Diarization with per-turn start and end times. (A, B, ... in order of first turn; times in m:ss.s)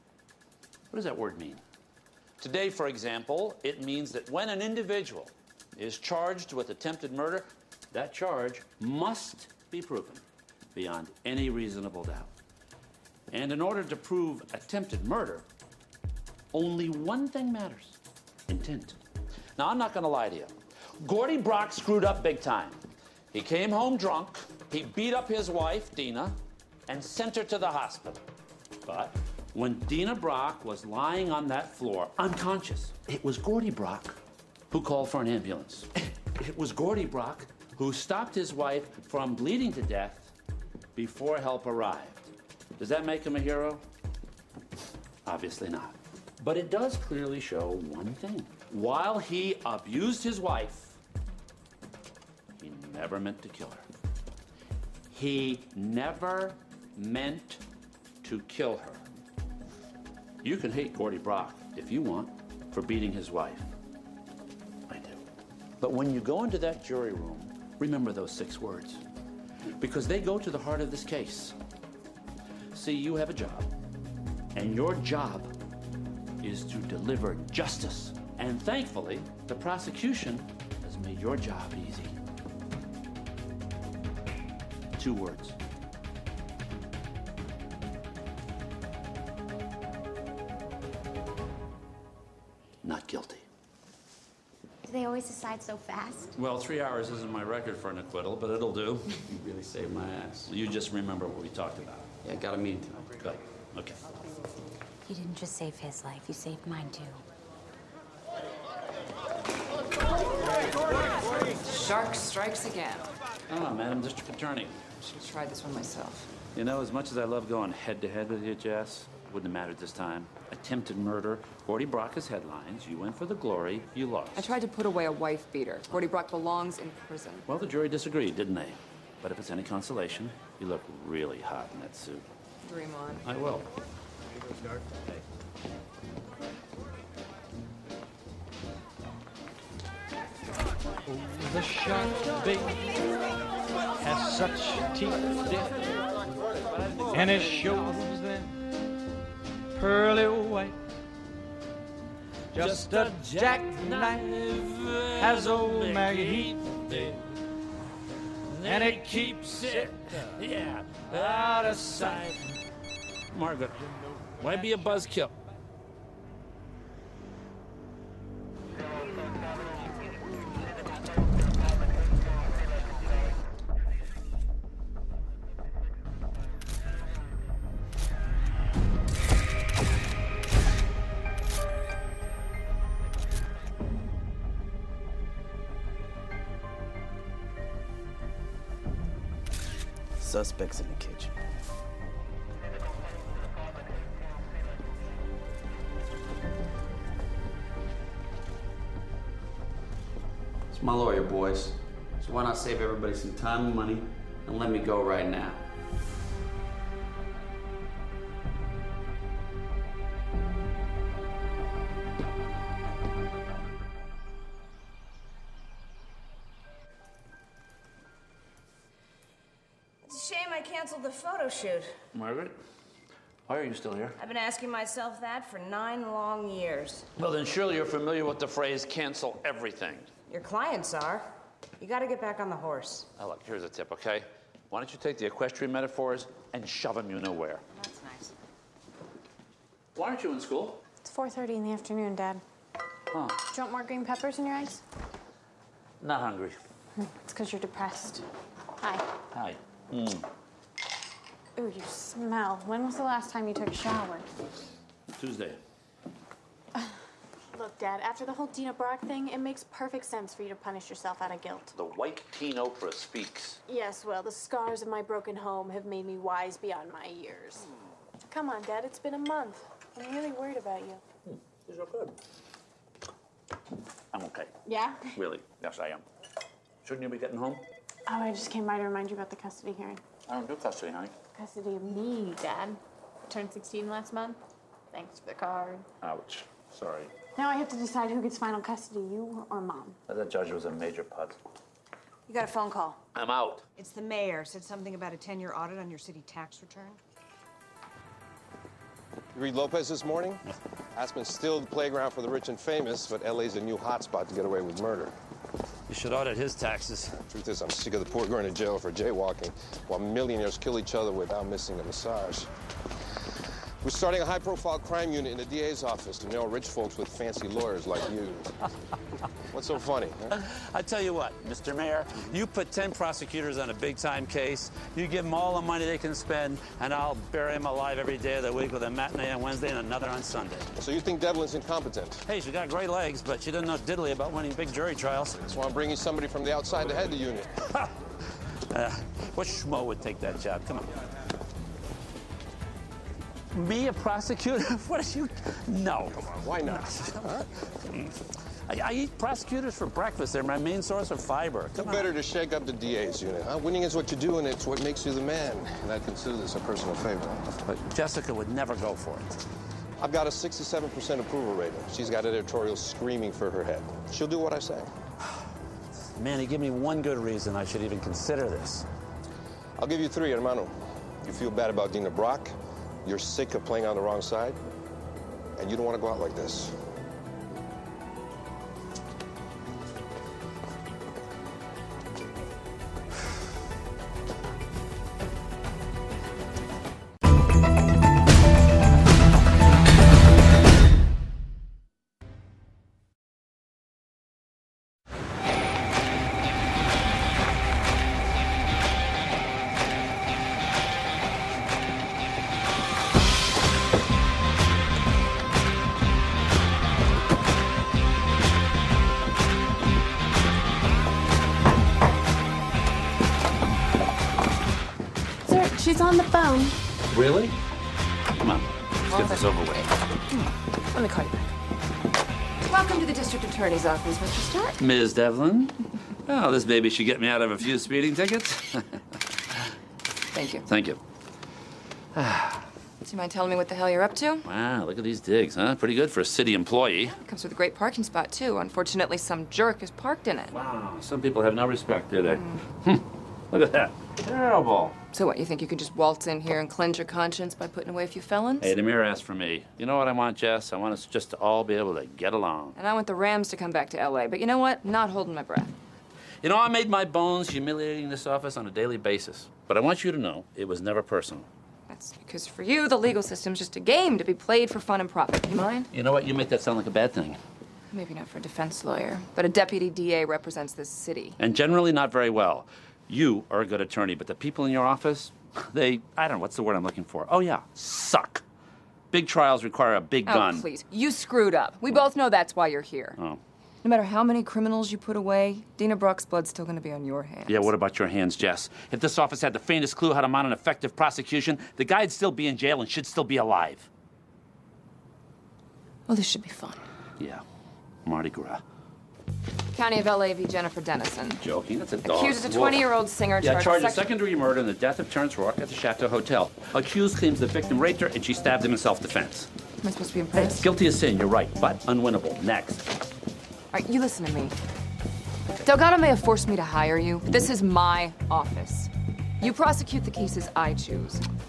0:00.9-0:01.6 A
0:02.4-0:10.2 A
0:10.7-0:12.3 A
0:13.3-0:15.4 A
0:16.5-0:18.0 A
0:18.5-0:19.0 A
0:19.6-0:22.8 A
0:23.3-0:26.4 A
0:26.9-0:28.2 A
0:28.8-0:34.2 A
0:34.7-0:40.3 A
0:41.0-0:43.8 A
0:45.2-0:51.0 A
0:52.6-0:53.8 A
0:55.1-0:57.6 A
0:58.2-0:59.0 A
1:00.4-1:03.7 A
1:04.9-1:05.2 A
1:05.8-1:09.0 A
1:09.8-1:11.6 A
1:12.7-1:13.7 A
1:14.6-1:15.5 A
1:16.4-1:22.2 A
1:25.0-1:25.6 A
1:32.8-1:33.4 A
1:36.4-1:39.2 A
1:39.3-1:40.5 B
1:40.4-1:42.1 A
1:42.2-1:43.1 B
1:43.1-1:44.0 A
1:45.1-1:47.2 C
1:51.7-1:53.1 D
1:53.5-1:54.8 A
1:55.0-1:56.3 D
1:56.5-2:04.6 A
2:04.4-2:07.5 D
2:07.5-2:12.2 A
2:12.6-2:13.2 D
2:13.2-2:13.7 A
2:21.3-2:22.8 E
2:24.0-2:25.8 E
2:27.1-2:28.5 E
2:29.8-2:30.8 E
2:32.5-2:37.2 A
2:32.5-2:34.2 E
2:35.2-2:36.4 E
2:38.5-2:42.6 A
2:38.6-2:39.0 E
2:43.3-2:45.3 A
3:10.2-3:11.3 B
3:20.7-3:25.6 B
3:40.1-3:41.9 F
3:42.1-3:42.6 A
3:43.5-3:44.2 A
3:44.2-3:47.0 F
3:47.2-3:50.1 A
3:50.3-3:51.3 F
3:51.8-3:53.0 F
3:53.2-3:57.6 A
3:57.8-3:58.3 F
4:00.0-4:00.8 A
4:01.0-4:02.4 G
4:03.1-4:03.4 A
4:03.5-4:04.8 G
4:06.0-4:06.6 A
4:07.0-4:08.3 G
4:09.3-4:10.3 A
4:11.6-4:14.3 G
4:15.2-4:15.6 A
4:17.5-4:21.7 G
4:21.7-4:23.6 A
4:23.7-4:27.6 G
4:28.3-4:31.0 G
4:31.3-4:32.2 A
4:34.1-4:34.5 A
4:34.7-4:35.0 G
4:35.1-4:36.0 A
4:36.8-4:37.6 A
4:38.1-4:40.0 G
4:40.3-4:41.1 A
4:41.4-4:44.4 G
4:44.9-4:45.8 G
4:46.0-4:47.1 A
4:47.4-4:50.0 G
4:50.1-4:51.4 A
4:53.1-4:53.6 A
4:53.8-4:57.0 F
4:59.4-5:00.4 H
5:01.0-5:05.1 H
5:05.9-5:07.2 A
5:07.3-5:12.5 H
5:13.8-5:18.5 H
5:19.5-5:20.3 H
5:20.3-5:30.7 A
5:30.8-5:32.2 H
5:32.3-5:35.4 A
5:35.4-5:37.5 H
5:38.7-5:40.9 A
5:43.5-5:52.1 A
5:46.2-5:46.9 H
5:51.8-5:57.4 H
5:57.5-5:59.3 A
6:00.0-6:04.9 H
6:06.1-6:08.9 A
6:09.8-6:10.7 H
6:11.2-6:12.5 H
6:13.0-6:14.6 H
6:15.6-6:16.7 H
6:55.5-6:56.8 G
6:57.1-6:57.6 A
6:58.4-6:59.9 A
7:02.7-7:04.8 D
7:04.8-7:09.0 A
7:10.3-7:10.6 D
7:10.6-7:11.0 A
7:12.2-7:12.6 A
7:13.0-7:14.4 D
7:14.4-7:17.2 A
7:17.1-7:20.5 D
7:20.5-7:25.0 A
7:25.1-7:28.7 D
7:28.6-7:32.8 A
7:32.8-7:35.7 D
7:36.4-7:41.5 A
7:41.9-7:45.9 D
7:45.9-7:47.4 A
7:47.9-7:51.4 D
7:51.4-7:58.4 A
7:59.1-8:00.7 A
8:00.3-8:03.2 D
8:03.8-8:07.7 D
8:07.5-8:13.9 A
8:16.1-8:16.8 D
8:18.0-8:18.6 A
8:19.7-8:21.4 D
8:21.4-8:22.9 A
8:22.0-8:24.1 D
8:23.4-8:29.5 A
8:29.8-8:30.7 D
8:30.3-8:32.9 A
8:33.7-8:34.6 D
8:35.6-8:41.3 D